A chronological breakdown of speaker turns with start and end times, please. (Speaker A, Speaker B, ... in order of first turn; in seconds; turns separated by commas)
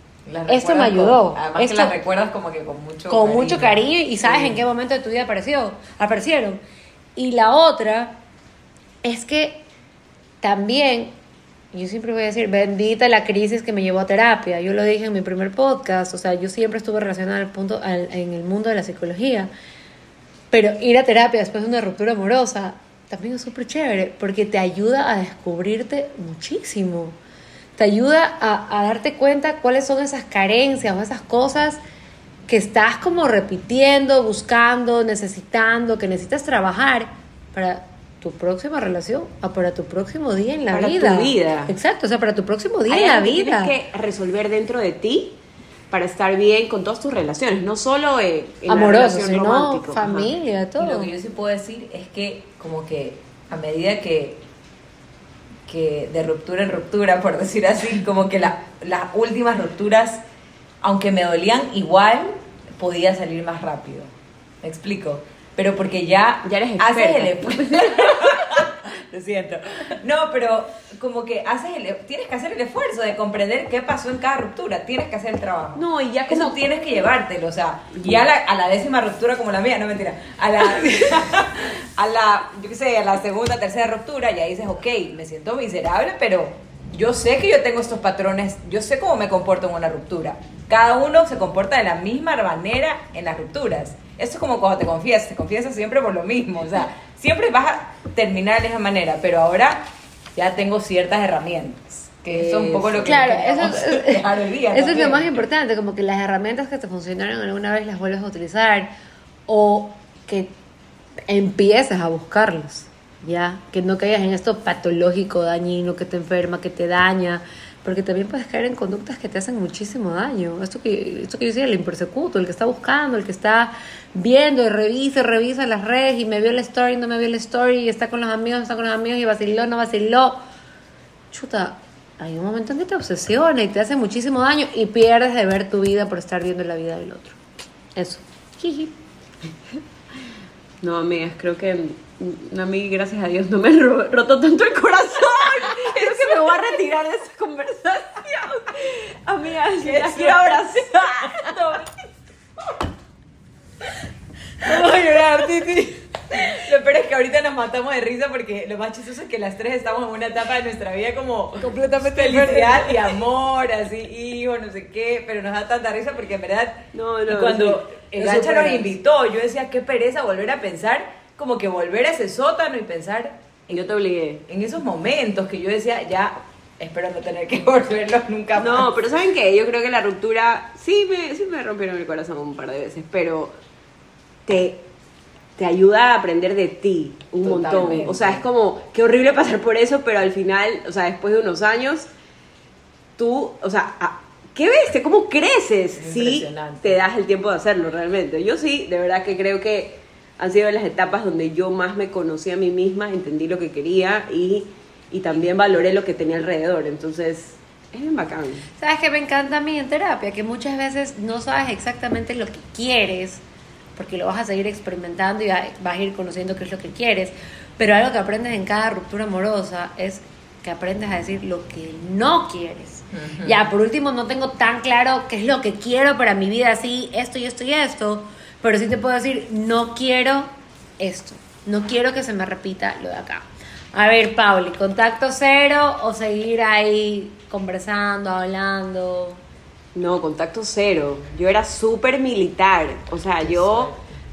Speaker A: 0.2-4.6, Speaker B: 0.5-1.9, Speaker B: 3.1-6.6, Speaker B: 7.2-8.2, Speaker B: 9.0-9.6, Speaker B: 10.4-11.1, Speaker B: 11.7-19.5, Speaker B: 20.5-27.1, Speaker B: 27.8-31.8, Speaker B: 32.5-43.7, Speaker C: 40.7-41.7, Speaker C: 42.9-45.4, Speaker C: 45.9-50.3, Speaker B: 48.7-51.1, Speaker A: 50.8-54.4, Speaker A: 55.6-60.2, Speaker A: 60.8-105.3, Speaker C: 66.4-68.6, Speaker C: 75.8-76.6, Speaker C: 102.3-103.2, Speaker B: 103.0-108.9, Speaker B: 109.5-110.5, Speaker B: 111.3-130.4, Speaker B: 131.3-137.4, Speaker B: 137.9-138.9, Speaker C: 140.8-152.1, Speaker A: 149.8-151.6, Speaker A: 154.6-173.9, Speaker B: 154.6-155.8, Speaker B: 161.6-163.1, Speaker C: 166.9-167.8, Speaker B: 168.2-168.9, Speaker C: 173.7-174.4, Speaker A: 174.5-178.9, Speaker C: 178.6-183.5, Speaker C: 184.4-184.8, Speaker C: 185.6-192.1, Speaker A: 187.4-188.4, Speaker C: 193.2-208.7, Speaker A: 195.9-197.0, Speaker B: 208.8-213.4, Speaker B: 213.9-239.4, Speaker A: 223.1-223.7, Speaker C: 239.9-243.9, Speaker A: 243.4-244.1